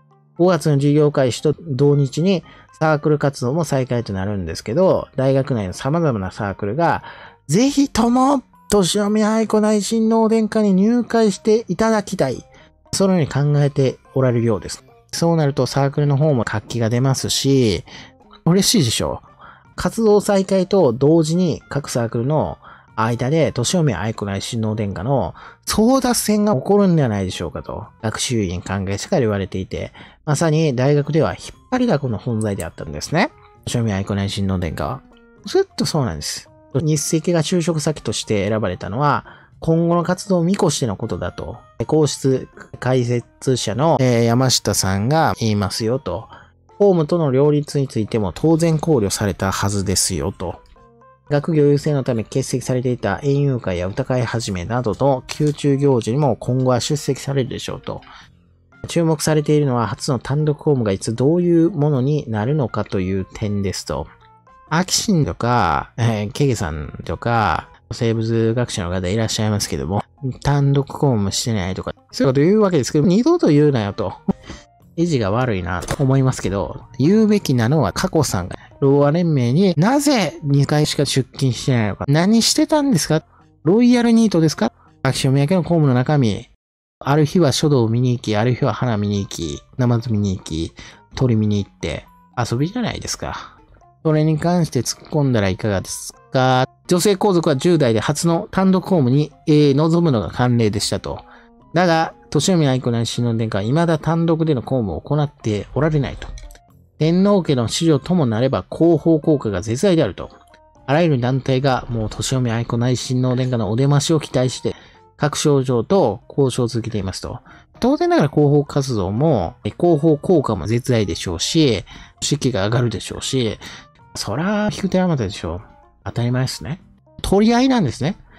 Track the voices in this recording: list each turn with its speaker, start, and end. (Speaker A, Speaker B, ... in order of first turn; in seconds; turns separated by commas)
Speaker A: 0.4-17.9, Speaker A: 18.5-19.2, Speaker A: 19.8-50.6, Speaker A: 51.3-58.0, Speaker A: 58.9-64.1, Speaker A: 64.7-74.2, Speaker A: 75.0-86.5, Speaker A: 87.0-106.3, Speaker A: 107.0-110.3, Speaker A: 110.9-123.6, Speaker A: 124.1-128.2